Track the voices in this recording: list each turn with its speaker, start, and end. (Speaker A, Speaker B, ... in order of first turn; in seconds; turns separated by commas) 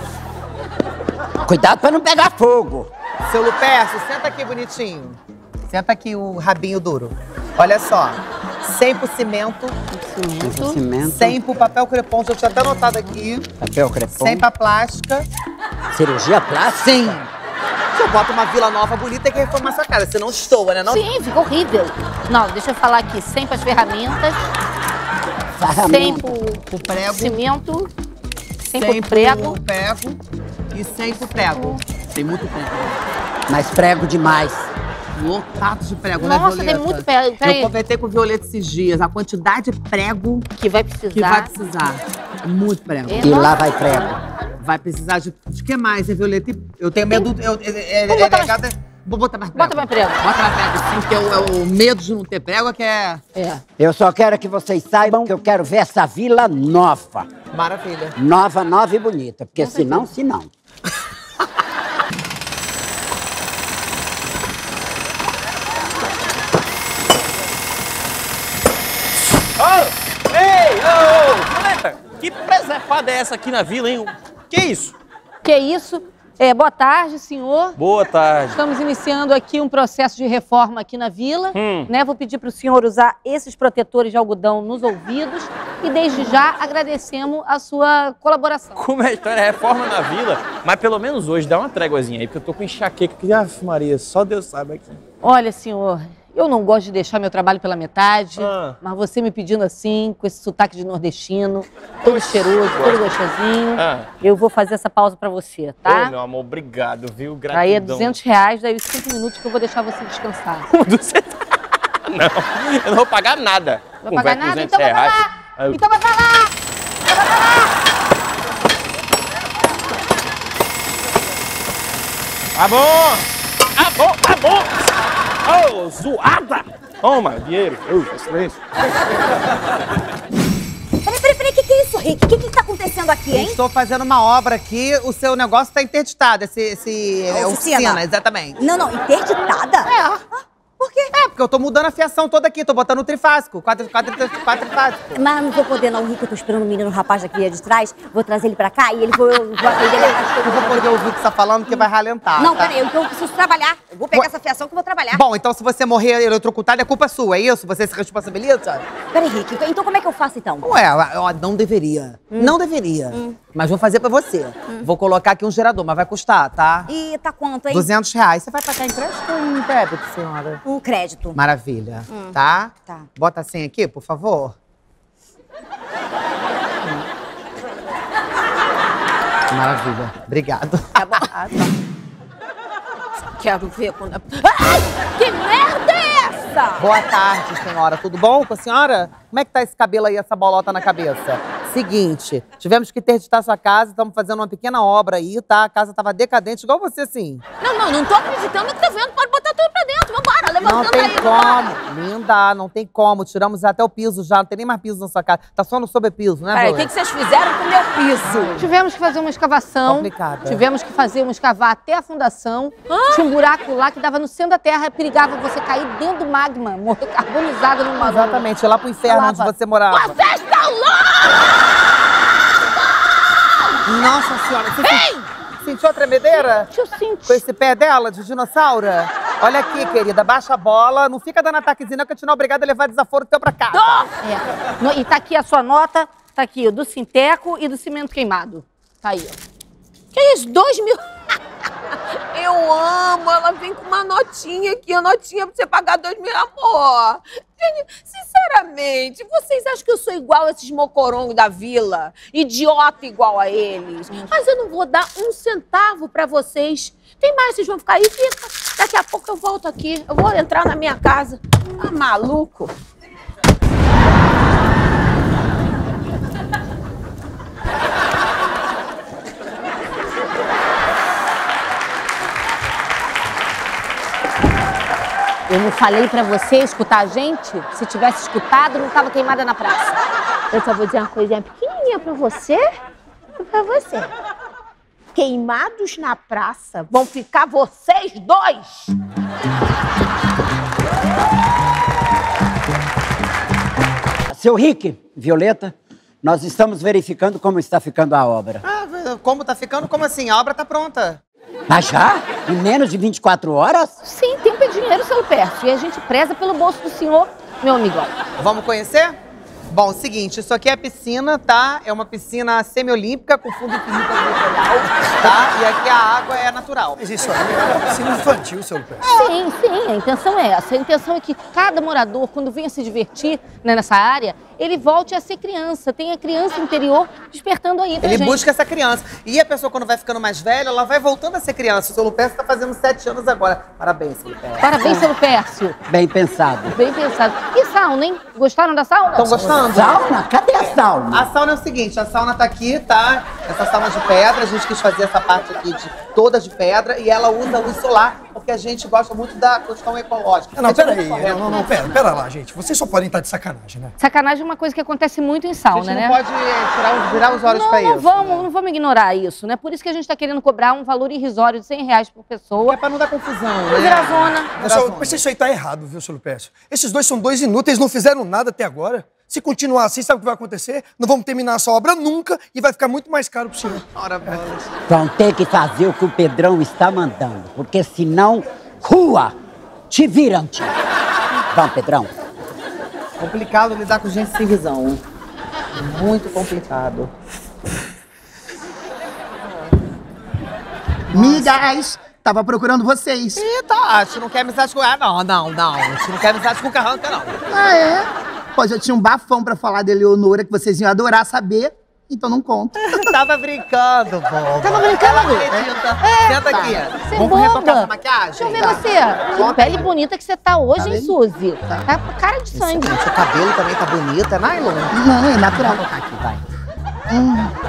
Speaker A: 1.4-2.9, Speaker B: 3.3-5.2, Speaker B: 5.7-9.8, Speaker C: 9.9-10.8, Speaker A: 10.4-11.4, Speaker B: 11.1-13.5, Speaker A: 13.6-14.5, Speaker B: 14.1-15.3, Speaker A: 15.9-17.2, Speaker B: 16.8-17.3, Speaker B: 17.9-21.1, Speaker C: 20.9-24.5, Speaker A: 25.6-26.3, Speaker C: 25.7-27.9, Speaker B: 26.7-27.4, Speaker C: 28.6-29.6, Speaker B: 28.7-30.2, Speaker B: 30.7-33.0, Speaker A: 33.5-34.7, Speaker B: 35.1-40.5, Speaker C: 36.2-37.7, Speaker C: 40.6-41.5, Speaker B: 41.1-43.3, Speaker C: 43.1-43.6, Speaker A: 43.2-44.2, Speaker B: 44.6-53.2, Speaker C: 48.1-48.6, Speaker C: 49.5-50.2, Speaker C: 53.4-53.6, Speaker A: 53.8-57.3, Speaker B: 57.5-58.1, Speaker A: 58.2-60.5, Speaker C: 59.6-60.1, Speaker D: 69.6-75.0, Speaker C: 75.4-77.8, Speaker D: 77.8-78.6, Speaker C: 78.5-88.8, Speaker D: 81.5-81.9, Speaker D: 88.8-95.0, Speaker C: 95.2-106.2, Speaker D: 98.4-98.8, Speaker D: 102.0-103.1, Speaker D: 103.8-104.1, Speaker D: 105.8-108.2, Speaker C: 107.5-110.7, Speaker D: 110.7-115.8, Speaker C: 114.0-116.5, Speaker C: 117.1-117.6, Speaker D: 122.5-124.9, Speaker D: 125.5-128.6, Speaker E: 131.1-133.6, Speaker B: 133.3-138.6, Speaker E: 137.3-138.0, Speaker E: 138.6-141.1, Speaker B: 139.9-140.2, Speaker B: 141.1-145.2, Speaker E: 145.2-150.9, Speaker B: 149.7-152.7, Speaker E: 152.4-155.2, Speaker B: 155.1-158.9, Speaker E: 159.1-160.7, Speaker B: 160.6-166.9, Speaker E: 166.9-167.9, Speaker B: 167.7-170.6, Speaker E: 170.7-171.4, Speaker B: 171.3-174.6, Speaker B: 179.5-181.6, Speaker F: 183.4-186.8, Speaker B: 186.8-197.4, Speaker F: 197.6-201.7, Speaker B: 200.6-206.9, Speaker F: 206.5-208.6, Speaker B: 208.2-208.7, Speaker C: 208.6-218.5, Speaker B: 209.9-210.7, Speaker F: 212.9-213.4, Speaker B: 218.0-220.2, Speaker C: 219.1-219.5, Speaker F: 219.9-221.5, Speaker B: 223.9-225.1, Speaker F: 224.8-225.3, Speaker B: 225.6-226.7, Speaker C: 226.3-227.4, Speaker B: 227.3-234.1, Speaker F: 233.7-234.1, Speaker C: 234.2-239.4, Speaker F: 240.1-241.1, Speaker F: 242.3-262.7, Speaker C: 275.5-280.0, Speaker F: 280.5-282.7, Speaker F: 283.4-284.1, Speaker F: 285.1-288.9, Speaker A: 294.3-298.6, Speaker B: 298.6-301.2, Speaker A: 301.7-304.0, Speaker C: 304.0-308.1, Speaker B: 308.4-309.2, Speaker B: 309.7-317.0, Speaker G: 317.0-319.0, Speaker C: 319.0-328.4, Speaker B: 328.0-335.1, Speaker C: 334.6-335.8, Speaker A: 335.9-336.8, Speaker C: 336.7-339.6, Speaker B: 339.2-340.1, Speaker A: 339.7-341.3, Speaker B: 341.1-351.7, Speaker G: 350.6-353.9, Speaker C: 354.0-356.2, Speaker B: 355.7-358.5, Speaker C: 357.1-362.8, Speaker B: 362.6-365.2, Speaker C: 363.7-364.5, Speaker G: 364.6-373.8, Speaker B: 373.8-374.8, Speaker A: 374.9-379.4, Speaker A: 379.9-380.8, Speaker A: 381.5-382.1, Speaker B: 383.2-385.0, Speaker B: 385.8-387.1, Speaker B: 391.1-391.6, Speaker H: 391.1-393.4, Speaker B: 393.4-397.4, Speaker H: 397.5-402.9, Speaker B: 402.9-409.9, Speaker C: 404.6-413.0, Speaker H: 410.8-411.1, Speaker B: 412.5-415.0, Speaker H: 414.9-415.8, Speaker B: 415.5-416.4, Speaker H: 417.1-417.5